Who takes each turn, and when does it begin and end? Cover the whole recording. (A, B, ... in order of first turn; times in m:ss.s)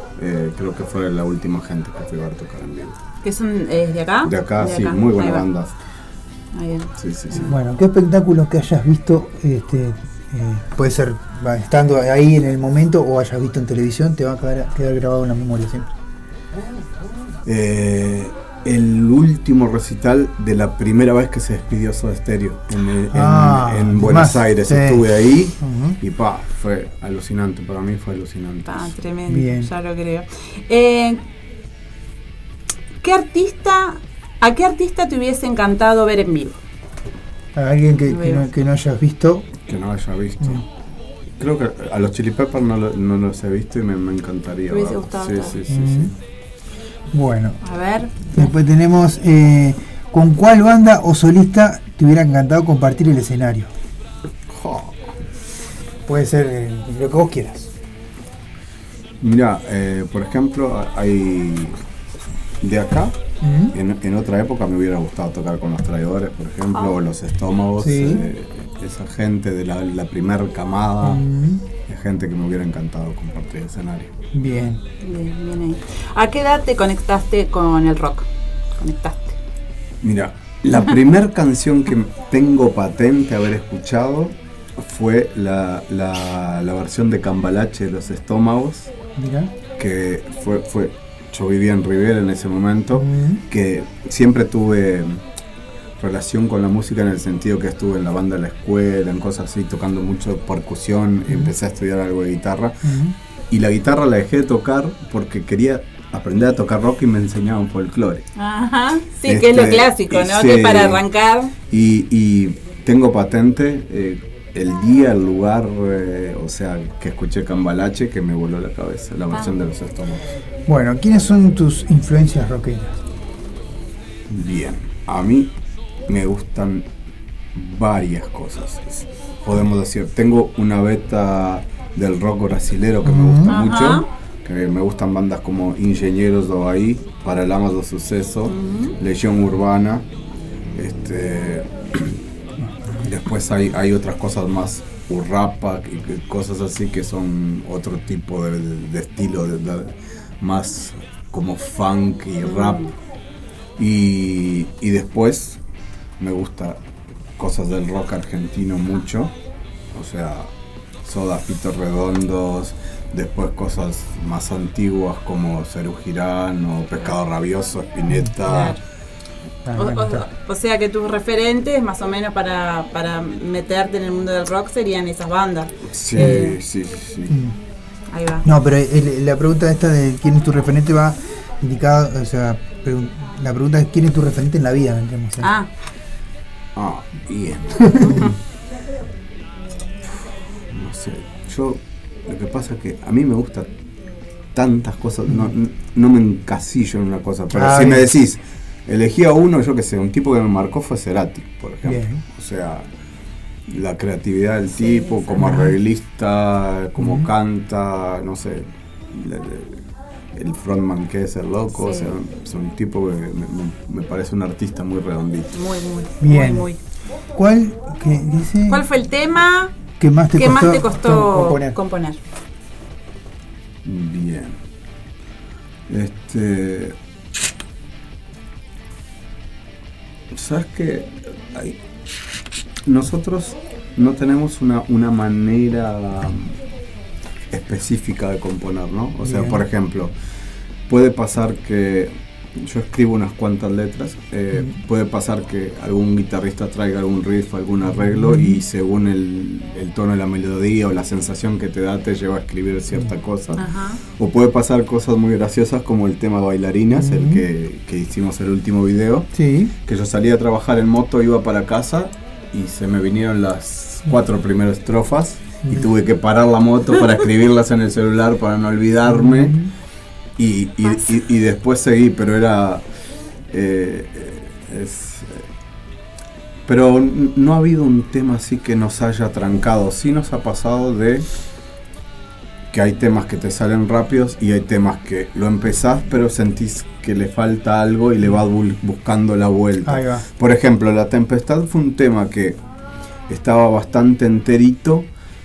0:00.2-0:03.0 A
0:03.2-0:05.4 B
0:04.2-0:05.7 A
0:06.5-0:07.5 B
0:07.0-0:07.5 A
0:07.4-0:15.9 C
0:17.4-0:28.9 A
0:23.1-0:26.0 C
0:28.6-0:31.2 B
0:29.3-0:29.7 C
0:33.0-0:36.6 B
0:37.5-0:39.5 C
0:38.1-0:38.4 B
0:39.7-0:40.6 A
0:41.4-0:46.1 A
0:44.7-0:45.5 B
0:45.7-0:46.1 C
0:47.1-0:47.6 C
0:47.6-0:48.5 B
0:48.3-0:53.7 C
0:54.5-0:55.0 A
0:56.0-0:57.7 C
0:59.2-1:01.8 A
1:02.6-1:03.2 A
1:03.4-1:03.8 C
1:03.7-1:14.1 A
1:07.8-1:08.3 C
1:11.0-1:11.6 C
1:14.3-1:14.8 C
1:15.0-1:18.3 B
1:18.8-1:19.4 B
1:20.0-1:28.9 A
1:29.2-1:29.5 C
1:29.8-1:35.2 A
1:32.9-1:33.4 C
1:36.0-1:42.8 A
1:42.8-1:43.1 C
1:43.5-1:48.2 A
1:48.4-1:51.5 B
1:49.2-1:51.0 A
1:51.7-2:00.2 A
2:00.7-2:02.9 C
2:04.3-2:05.5 A
2:06.1-2:06.9 A
2:07.5-2:20.0 A
2:13.0-2:13.5 C
2:13.5-2:14.1 B
2:18.5-2:18.9 B
2:20.8-2:22.1 A
2:23.0-2:32.8 A
2:32.4-2:32.9 B
2:33.8-2:35.6 A
2:36.2-2:36.8 A
2:37.4-2:39.3 A
2:39.9-2:40.5 A
2:41.0-2:48.8 A
2:48.4-2:48.8 B
2:49.6-2:50.3 C
2:49.7-2:56.6 B
2:55.9-2:57.3 A
2:57.3-2:57.6 C
2:58.1-2:58.4 B
2:58.4-3:05.5 C
3:05.4-3:05.7 B
3:06.8-3:08.3 A
3:08.0-3:08.3 C
3:10.7-3:13.7 A
3:14.5-3:22.8 A
3:17.5-3:18.1 C
3:21.8-3:22.2 C
3:23.7-3:29.8 A
3:24.7-3:25.6 B
3:25.4-3:25.7 C
3:27.0-3:27.3 C
3:30.4-3:35.6 A
3:31.8-3:32.1 B
3:35.5-3:36.8 B
3:36.2-3:36.7 C
3:37.4-3:38.8 C
3:38.7-3:39.7 B
3:40.0-3:41.8 C
3:40.3-3:42.2 B
3:43.8-3:44.6 A
3:45.9-3:46.9 A
3:50.3-3:51.8 A
3:52.8-3:56.5 A
3:57.5-4:00.1 A
3:59.2-3:59.6 C
4:00.9-4:13.6 A
4:07.8-4:08.6 C
4:13.6-4:14.0 B
4:14.2-4:19.3 A
4:16.9-4:17.4 C
4:19.3-4:19.7 C
4:19.8-4:29.6 A
4:29.1-4:29.7 C
4:30.4-4:32.8 A
4:33.5-4:35.4 A
4:36.7-4:41.2 A
4:42.7-4:52.6 A
4:49.8-4:50.2 C
4:53.3-4:55.1 A